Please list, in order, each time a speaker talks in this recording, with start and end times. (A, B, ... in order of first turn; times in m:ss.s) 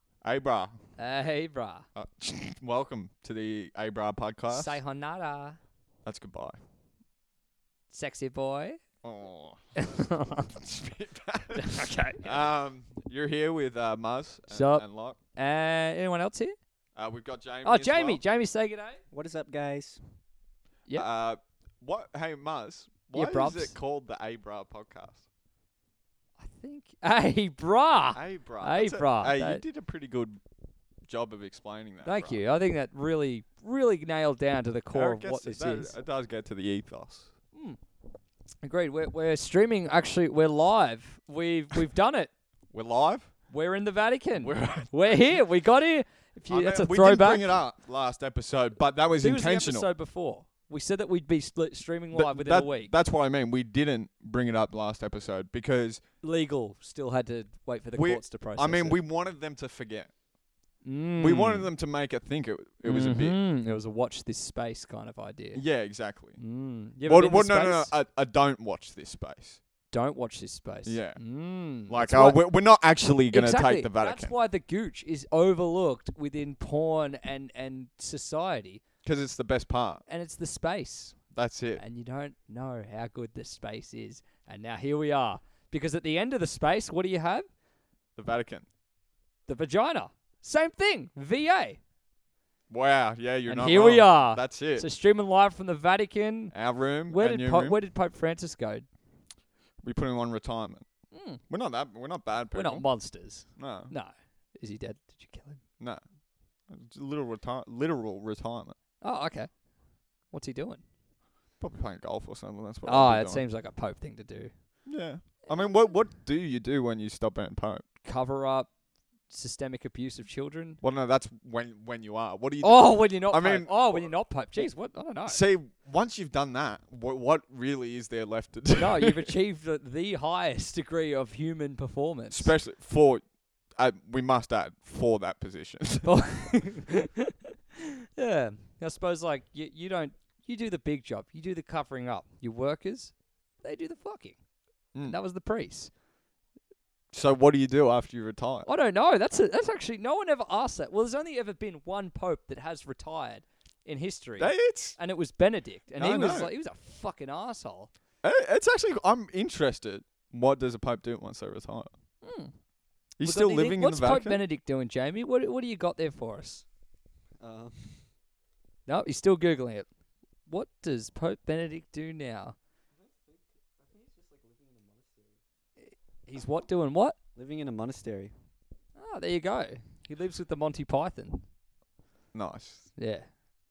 0:00.2-0:00.8 A
0:01.0-0:01.9 B
0:02.0-0:04.8 A
0:04.5-0:05.6 B
0:06.0-0:06.6 A
0:07.9-0:08.8 B
0:09.0-0:15.2 A
0:09.8-0:10.5 B
0:11.5-0:12.3 B
0:14.5-0:14.8 B
0:15.4-0:16.5 B
0:17.0-0:18.2 A
0:17.6-0:19.0 B
0:19.1-0:20.0 C
0:20.9-0:25.2 A
0:23.1-0:23.7 B
0:26.4-0:29.6 B
0:28.1-0:30.4 A
0:31.0-0:32.4 A
0:32.0-0:36.0 B
0:34.9-0:37.3 A
0:38.6-0:42.3 B
0:42.7-0:43.3 A
0:43.5-0:47.5 B
0:44.4-0:45.3 A
0:46.5-0:49.9 A
0:49.2-0:52.9 B
0:52.1-0:56.0 A
0:56.2-0:59.0 B
0:58.0-1:00.1 A
1:00.8-1:01.7 B
1:01.2-1:03.4 A
1:02.8-1:05.6 B
1:05.5-1:06.4 A
1:06.4-1:07.9 B
1:07.0-1:09.6 A
1:09.9-1:12.4 B
1:10.8-1:11.2 A
1:11.9-1:14.3 A
1:13.3-1:18.8 B
1:19.0-1:20.0 A
1:20.1-1:21.2 B
1:21.3-1:21.8 A
1:21.8-1:27.4 B
1:28.2-1:28.6 A
1:29.5-1:31.8 B
1:32.7-1:34.8 A
1:33.4-1:36.5 B
1:36.5-1:37.8 A
1:37.1-1:38.8 B
1:39.8-1:40.8 A
1:41.1-1:41.4 B
1:41.5-1:42.9 A
1:42.5-1:45.6 B
1:43.6-1:43.9 A
1:46.7-1:48.7 A
1:49.0-1:49.5 B
1:50.3-1:50.8 B
1:51.6-1:53.4 A
1:52.8-1:54.5 B
1:54.8-1:57.8 A
1:58.0-1:58.7 B
1:59.3-2:00.8 B
2:00.8-2:04.7 A
2:02.6-2:05.4 B
2:05.3-2:09.3 A
2:08.7-2:12.5 B
2:12.3-2:13.2 A
2:13.8-2:16.1 A
2:16.0-2:23.1 B
2:23.6-2:24.4 B
2:25.0-2:25.9 B
2:27.1-2:28.7 A
2:28.6-2:37.9 B
2:34.4-2:35.0 A
2:36.0-2:36.5 A
2:38.2-2:41.9 A
2:42.2-2:42.5 B
2:43.2-2:44.4 A
2:43.2-2:46.6 B
2:47.4-2:48.0 C
2:48.9-2:49.9 B
2:50.5-2:52.5 B
2:52.9-2:55.4 C
2:56.3-2:57.2 B
2:57.4-2:58.3 C
2:59.0-3:01.4 B
3:02.3-3:02.8 A
3:03.0-3:03.2 B